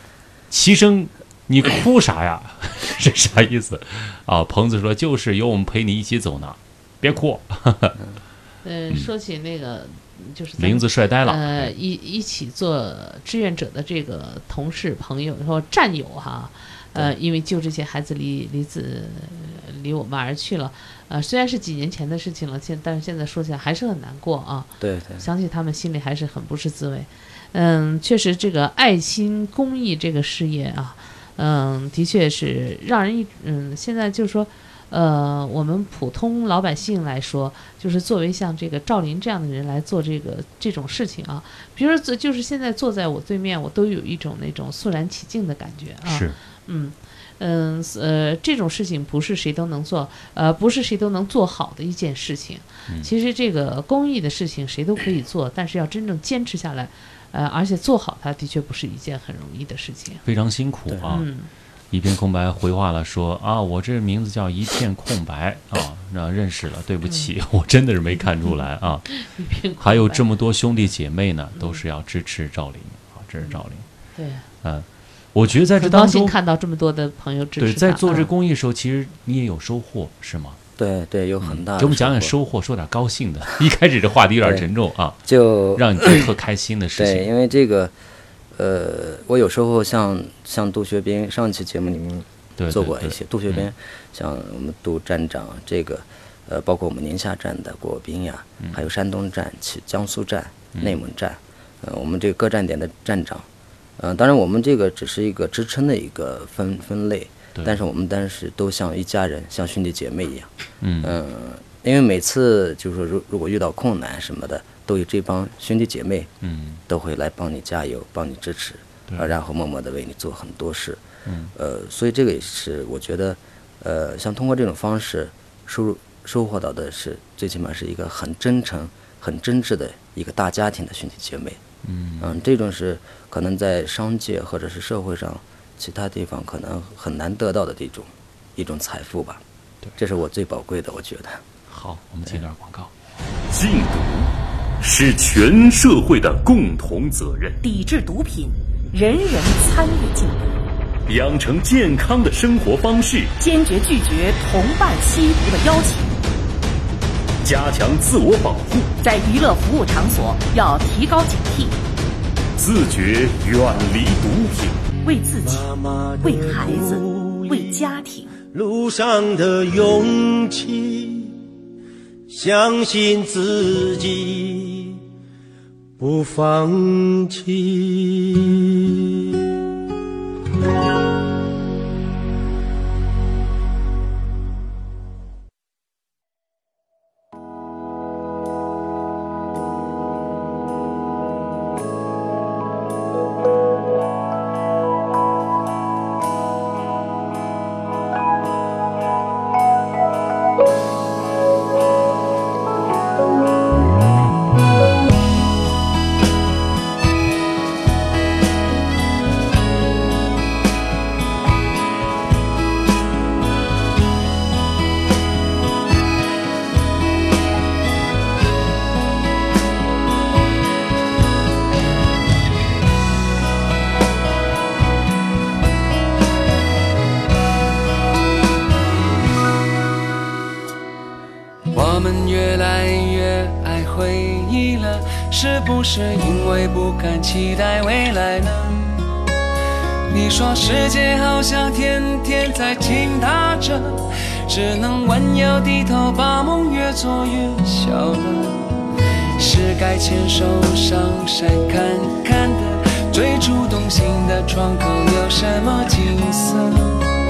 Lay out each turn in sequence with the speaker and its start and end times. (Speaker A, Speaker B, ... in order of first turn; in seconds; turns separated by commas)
Speaker A: 0.5-8.0, Speaker B: 8.6-60.2, Speaker A: 10.6-11.7, Speaker C: 24.8-25.2, Speaker A: 46.0-46.4, Speaker A: 60.2-61.3, Speaker B: 61.1-61.5, Speaker A: 61.9-69.1, Speaker B: 68.2-70.2, Speaker A: 69.8-73.9, Speaker B: 71.5-71.8, Speaker B: 74.1-74.5, Speaker A: 74.6-76.4, Speaker B: 75.8-78.3, Speaker A: 77.6-80.6, Speaker C: 80.8-82.3, Speaker A: 81.4-87.3, Speaker C: 84.4-84.7, Speaker C: 85.2-86.3, Speaker C: 87.0-87.9, Speaker C: 88.5-110.5, Speaker A: 92.6-93.7, Speaker A: 107.5-107.8, Speaker A: 110.8-111.2, Speaker C: 111.0-116.3, Speaker A: 116.4-116.8, Speaker C: 116.9-121.0, Speaker A: 121.2-121.5, Speaker C: 121.5-131.6, Speaker A: 131.8-132.4, Speaker C: 132.2-139.4, Speaker C: 140.0-141.4, Speaker A: 141.7-142.9, Speaker D: 143.5-144.3, Speaker D: 144.8-147.6, Speaker E: 147.6-150.6, Speaker D: 151.1-153.3, Speaker E: 153.4-156.1, Speaker D: 157.4-158.9, Speaker E: 159.0-161.8, Speaker D: 162.6-164.8, Speaker E: 165.0-165.7, Speaker F: 165.4-171.4, Speaker E: 166.2-168.3, Speaker F: 172.3-175.0, Speaker F: 176.0-179.1, Speaker G: 231.7-239.1, Speaker G: 240.1-248.8, Speaker G: 249.4-257.1